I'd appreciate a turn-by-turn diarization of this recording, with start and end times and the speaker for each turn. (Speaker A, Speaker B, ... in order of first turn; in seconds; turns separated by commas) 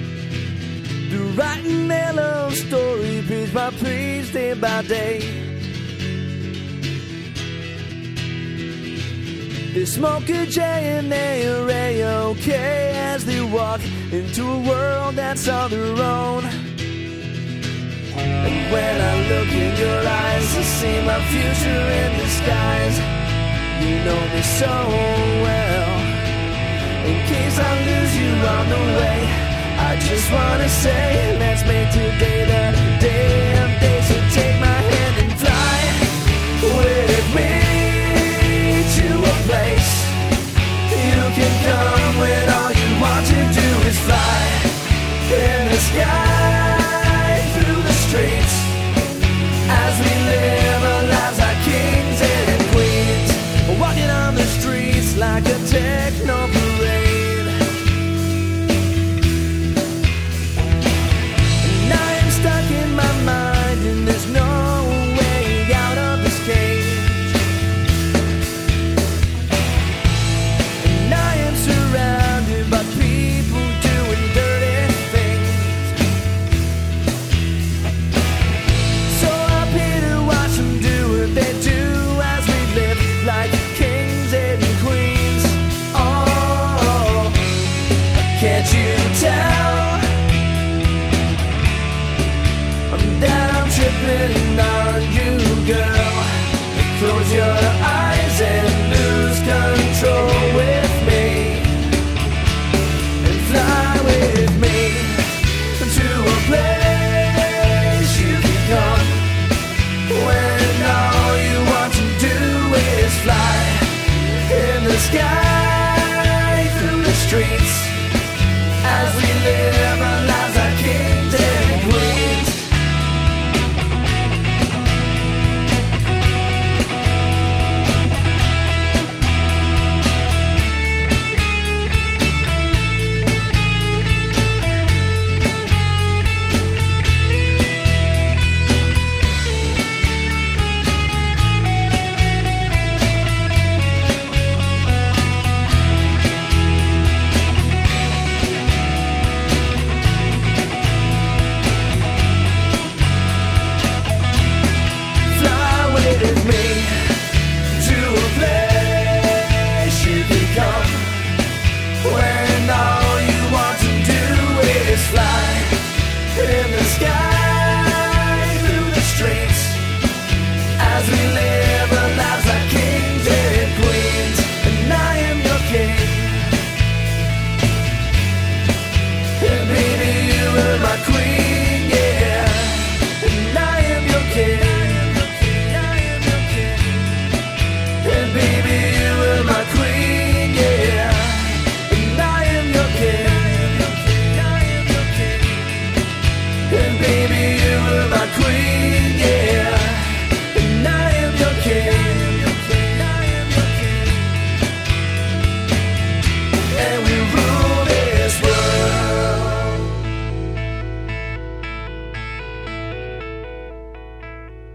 Speaker A: 1.1-5.5, Speaker A: 9.7-16.6, Speaker A: 18.4-23.0, Speaker A: 23.7-26.1, Speaker A: 27.0-40.2, Speaker A: 40.9-48.8, Speaker A: 49.7-57.5, Speaker A: 61.6-67.3, Speaker A: 70.8-75.9, Speaker A: 79.0-87.4, Speaker A: 88.2-90.0, Speaker A: 92.9-101.8, Speaker A: 103.2-109.3, Speaker A: 110.1-118.0, Speaker A: 118.8-122.7, Speaker A: 155.3-156.9, Speaker A: 157.7-161.4, Speaker A: 162.0-169.8, Speaker A: 170.8-176.4, Speaker A: 179.3-187.3, Speaker A: 188.0-195.9, Speaker A: 196.7-204.2, Speaker A: 206.7-209.8